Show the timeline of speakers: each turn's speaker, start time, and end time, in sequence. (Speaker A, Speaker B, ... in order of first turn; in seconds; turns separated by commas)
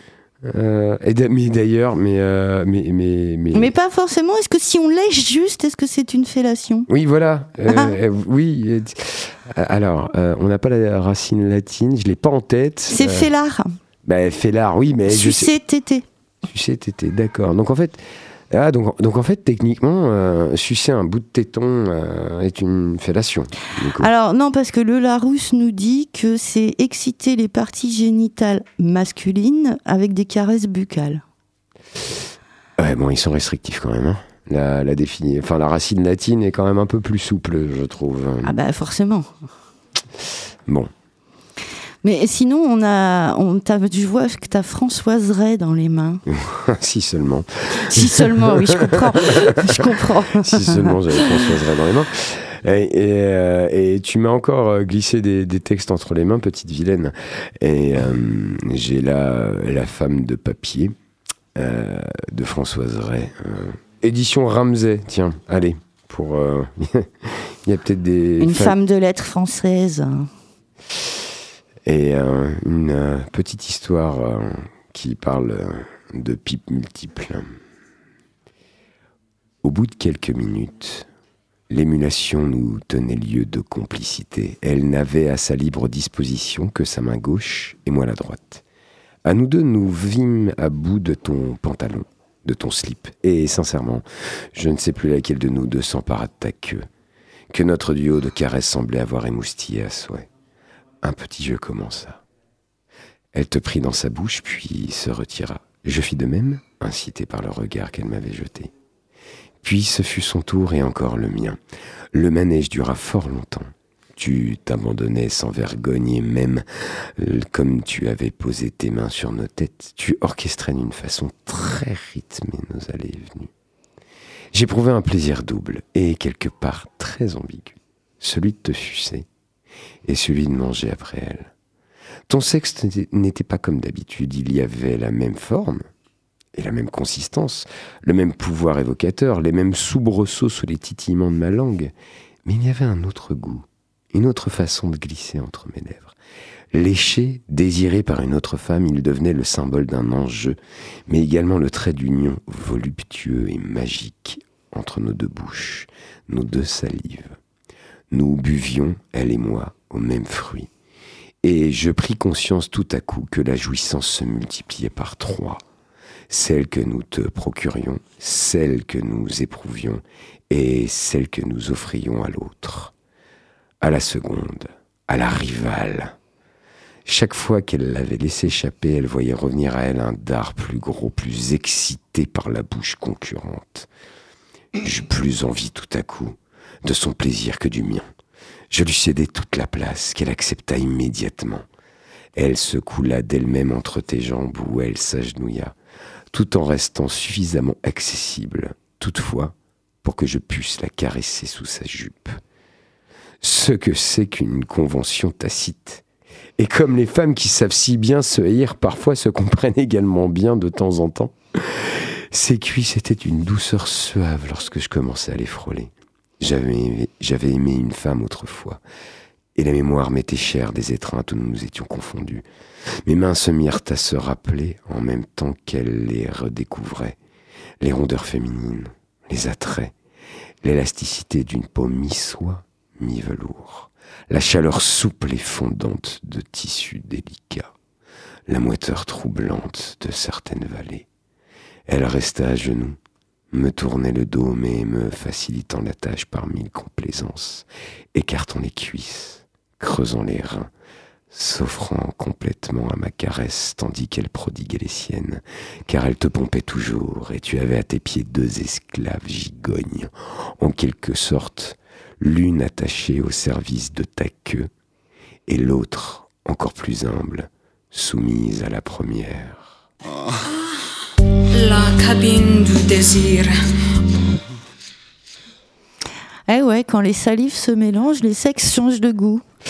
Speaker A: 0.4-3.7, Speaker B: 3.5-6.9, Speaker A: 6.9-13.3, Speaker B: 12.9-13.7, Speaker A: 14.1-15.5, Speaker B: 15.1-16.1, Speaker A: 16.4-24.1, Speaker B: 24.0-31.2, Speaker A: 32.8-38.6, Speaker B: 38.4-39.3, Speaker B: 42.0-46.2, Speaker A: 46.3-61.0, Speaker B: 47.9-51.0, Speaker A: 61.5-68.8, Speaker B: 68.4-70.3, Speaker A: 71.8-77.5, Speaker A: 79.6-81.1, Speaker A: 81.7-88.6, Speaker A: 89.2-96.9, Speaker A: 97.5-100.3, Speaker A: 101.0-102.2, Speaker A: 103.3-108.7, Speaker A: 109.6-111.6, Speaker A: 112.1-123.5, Speaker A: 124.5-129.3, Speaker A: 130.1-131.5, Speaker A: 132.3-135.9, Speaker A: 136.6-141.9, Speaker A: 142.5-146.2, Speaker A: 146.7-157.4, Speaker A: 158.1-160.7, Speaker A: 161.4-165.6, Speaker A: 166.3-172.9, Speaker A: 173.8-176.2, Speaker A: 177.1-183.9, Speaker A: 184.8-188.1, Speaker A: 188.7-191.7, Speaker A: 192.3-195.8, Speaker A: 196.3-202.4, Speaker A: 203.4-206.0, Speaker A: 206.6-218.8, Speaker A: 219.6-222.5, Speaker A: 223.0-227.2, Speaker A: 227.8-229.9, Speaker A: 230.6-237.7, Speaker A: 238.5-241.1, Speaker A: 241.9-243.0, Speaker A: 243.5-250.7, Speaker A: 251.3-264.7, Speaker A: 265.5-269.8, Speaker C: 271.5-273.5, Speaker B: 276.5-279.4